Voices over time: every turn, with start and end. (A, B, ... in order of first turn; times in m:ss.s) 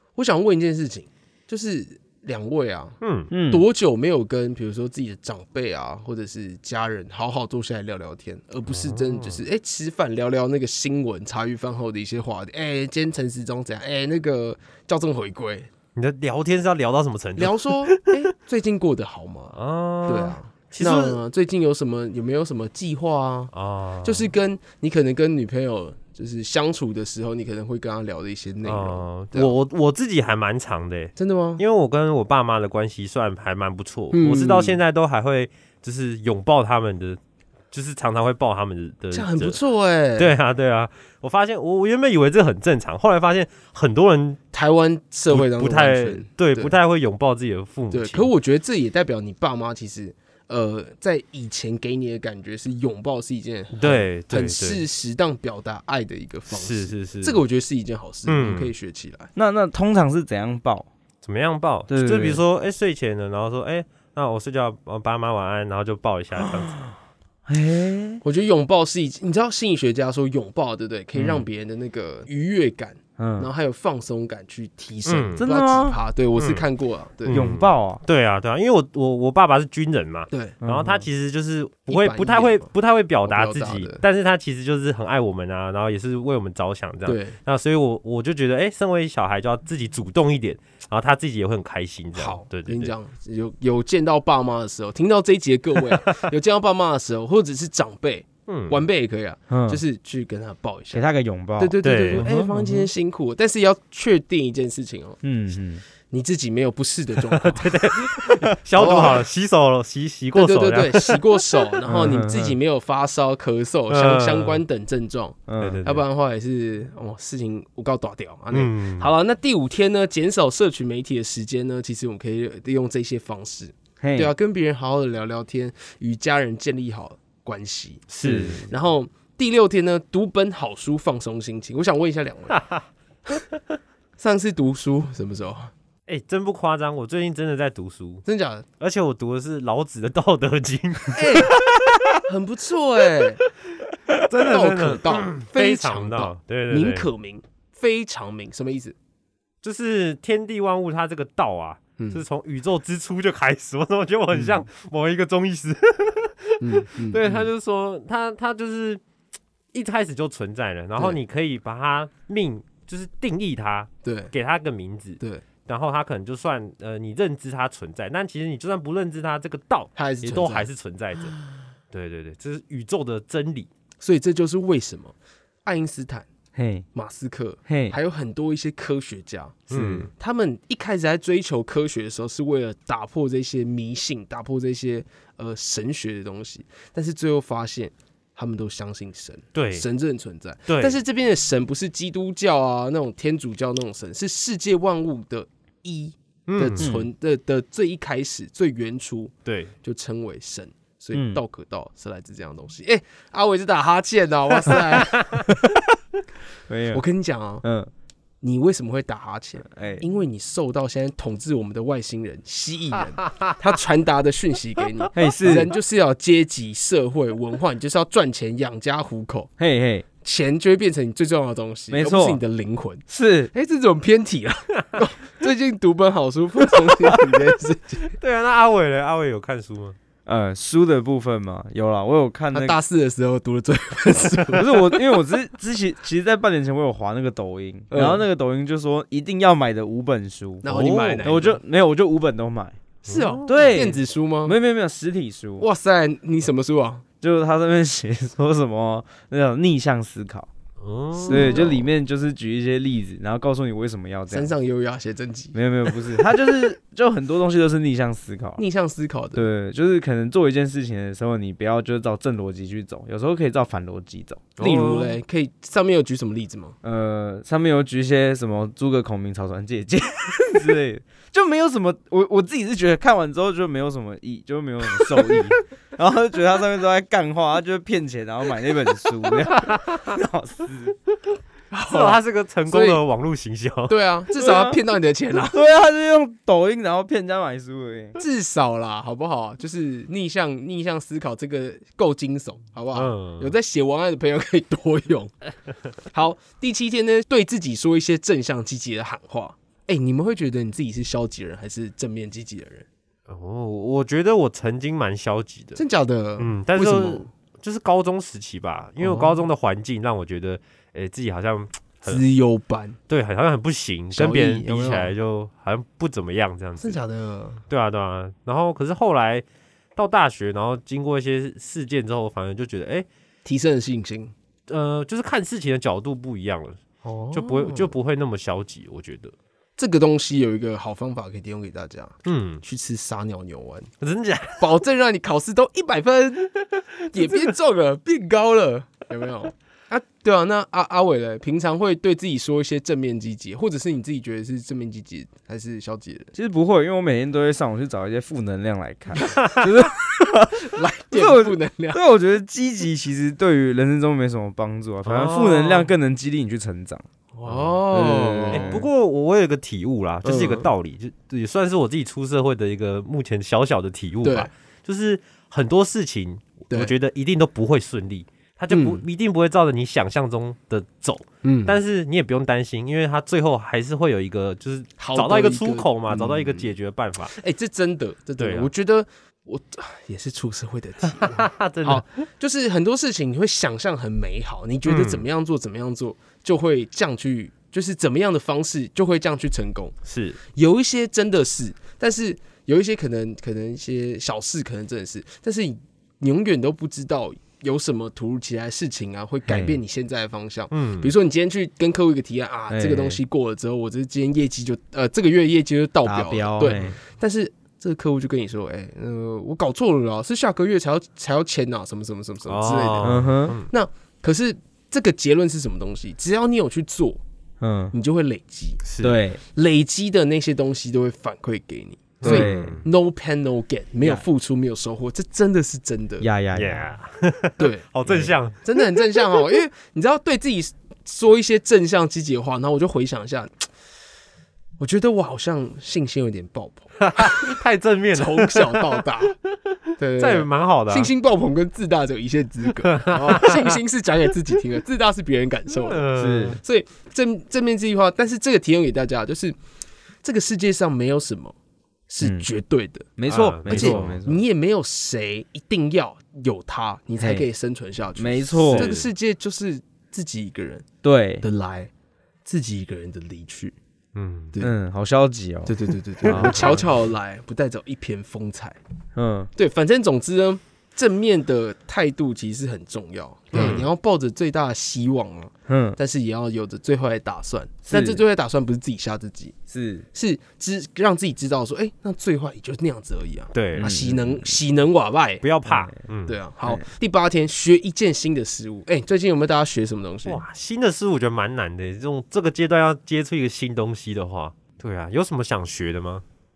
0:00.2-0:03.0 A
0:03.0-0:03.3 B
0:03.3-0:03.6 C
0:03.5-0:15.7 A
0:08.7-0:09.4 B
0:16.0-0:18.1 B
0:17.4-0:19.5 A
0:19.5-0:21.2 B
0:20.1-0:23.5 A
0:23.5-0:24.3 B
0:24.0-0:29.5 A
0:28.6-0:37.2 B
0:31.2-0:31.6 A
0:34.1-0:34.8 A
0:37.7-0:39.6 B
0:39.1-0:40.3 A
0:40.2-0:44.4 B
0:44.5-0:46.8 A
0:45.3-0:48.3 B
0:47.9-0:59.3 A
0:53.7-0:54.8 B
0:56.5-0:57.4 B
0:58.3-0:58.7 B
0:59.3-1:00.9 C
1:01.2-1:06.8 B
1:01.9-1:02.4 C
1:06.4-1:06.9 C
1:07.4-1:08.2 C
1:08.2-1:17.5 A
1:11.2-1:11.4 C
1:13.2-1:13.5 C
1:15.0-1:15.4 B
1:15.4-1:16.0 C
1:16.4-1:16.6 B
1:17.2-1:32.9 B
1:17.3-1:18.0 C
1:20.3-1:20.6 A
1:20.6-1:21.1 C
1:21.9-1:22.7 A
1:23.2-1:24.0 A
1:27.0-1:27.4 A
1:32.1-1:41.0 A
1:38.5-1:38.8 B
1:39.5-1:39.8 C
1:40.9-1:42.9 C
1:41.6-1:45.2 A
1:41.8-1:42.2 B
1:45.2-1:45.8 C
1:46.1-1:47.9 A
1:47.3-1:51.2 B
1:48.8-1:49.2 A
1:50.3-2:08.1 A
1:51.8-1:52.6 C
1:53.9-1:54.6 B
1:55.5-1:55.8 C
1:55.6-1:56.0 B
1:58.5-1:59.1 B
2:04.0-2:04.3 C
2:08.1-2:08.7 B
2:08.2-2:08.6 C
2:08.6-2:12.6 A
2:12.5-2:12.8 B
2:14.2-2:15.7 A
2:16.1-2:18.2 B
2:18.2-2:18.6 A
2:18.8-2:21.5 B
2:21.1-2:21.6 A
2:22.2-2:23.4 A
2:24.1-2:27.1 B
2:24.4-2:28.9 A
2:29.6-2:39.0 B
2:36.6-2:37.5 A
2:39.7-2:51.4 B
2:44.0-2:44.3 A
2:49.9-2:50.7 A
2:51.9-2:53.7 B
2:54.0-2:56.3 A
2:56.5-2:56.8 C
2:56.9-3:19.3 A
2:57.7-2:58.0 C
2:59.7-3:00.1 B
2:59.7-3:00.0 C
3:09.5-3:09.8 B
3:10.7-3:11.0 B
3:16.5-3:16.9 B
3:16.8-3:17.1 C
3:19.4-3:19.7 B
3:19.8-3:25.4 A
3:21.1-3:21.4 C
3:25.0-3:25.4 B
3:26.7-3:27.0 C
3:26.9-3:27.6 A
3:27.6-3:27.9 C
3:28.4-3:39.5 A
3:29.7-3:30.0 C
3:35.1-3:35.7 C
3:39.6-3:40.0 C
3:40.2-3:48.1 A
3:41.9-3:42.4 C
3:43.1-3:43.5 C
3:48.2-3:50.0 B
3:50.2-3:52.8 C
3:52.5-3:55.0 A
3:54.5-4:00.6 C
3:57.9-3:58.2 A
4:00.6-4:01.6 A
4:00.6-4:01.3 B
4:01.2-4:02.8 C
4:03.0-4:03.8 B
4:03.1-4:04.5 A
4:03.4-4:05.6 C
4:05.6-4:07.0 A
4:07.2-4:10.5 C
4:10.8-4:11.7 B
4:11.2-4:11.9 A
4:11.3-4:14.5 C
4:14.3-4:16.2 A
4:15.5-4:18.6 C
4:18.6-4:19.4 A
4:19.3-4:24.5 C
4:24.6-4:25.2 B
4:24.6-4:26.8 A
4:26.8-4:41.0 C
4:41.7-4:43.0 A
4:41.9-4:44.0 B
4:43.9-4:45.6 A
4:44.3-4:44.8 C
4:45.5-4:48.2 C
4:48.2-4:55.3 A
4:52.9-4:53.5 B
4:56.1-5:02.8 A
5:03.3-5:05.8 B
5:05.7-5:07.3 A
5:06.4-5:12.2 B
5:09.0-5:09.4 A
5:12.0-5:13.0 A
5:13.1-5:17.0 B
5:14.1-5:15.1 A
5:16.8-5:17.6 A
5:17.7-5:19.4 B
5:20.0-5:23.0 B
5:23.4-5:24.3 A
5:24.7-5:26.8 B
5:27.0-5:27.9 A
5:27.3-5:29.3 B
5:29.8-5:33.9 A
5:32.2-5:32.6 B
5:34.0-5:34.6 B
5:34.6-5:46.3 A
5:46.3-5:57.0 C
5:50.1-5:52.0 A
5:55.0-5:55.9 B
5:57.3-5:58.7 A
5:57.4-5:57.8 B
5:57.9-5:58.9 C
5:58.5-6:17.4 B
6:00.2-6:00.7 A
6:04.2-6:04.5 A
6:08.7-6:09.0 A
6:11.4-6:11.8 A
6:15.0-6:16.7 A
6:17.4-6:29.9 A
6:18.4-6:18.7 B
6:21.1-6:22.0 B
6:24.8-6:25.2 B
6:30.0-6:30.4 B
6:30.5-6:57.2 A
6:39.5-6:39.8 C
6:40.7-6:41.1 B
6:42.7-6:43.2 C
6:46.0-6:47.0 C
6:46.6-6:47.0 B
6:52.4-6:53.7 B
6:53.0-6:53.6 C
6:57.6-6:57.9 C
6:57.9-6:58.8 A
6:58.8-6:59.2 B
6:59.0-6:59.4 C
6:59.5-7:06.3 A
7:02.2-7:02.8 B
7:02.2-7:02.8 C
7:06.2-7:06.9 C
7:06.5-7:09.0 B
7:07.6-7:13.7 A
7:14.8-7:17.6 A
7:17.0-7:19.0 B
7:18.1-7:19.3 A
7:20.0-7:26.1 A
7:20.2-7:21.1 B
7:22.8-7:23.7 B
7:25.7-7:26.6 B
7:26.2-7:26.6 C
7:26.6-7:29.6 A
7:30.2-7:31.5 A
7:32.1-7:33.1 A
7:32.2-7:32.5 C
7:33.2-7:34.4 C
7:33.3-7:34.2 B
7:33.6-7:40.9 A
7:37.2-7:37.4 C
7:38.2-7:38.9 C
7:38.7-7:39.1 B
7:41.0-7:41.4 C
7:41.4-7:41.9 A
7:42.4-7:43.8 A
7:44.1-7:44.5 B
7:44.6-7:46.8 C
7:45.6-7:48.8 A
7:46.2-7:46.8 B
7:49.1-7:49.5 C
7:49.6-7:59.6 A
7:53.5-7:53.9 B
7:55.7-7:56.0 C
7:57.9-7:58.2 C
7:59.7-8:00.0 C
8:00.1-8:05.4 A
8:03.5-8:03.9 B
8:03.7-8:04.5 C
8:05.4-8:06.4 B
8:05.6-8:05.9 C
8:06.3-8:10.4 A
8:10.2-8:16.2 B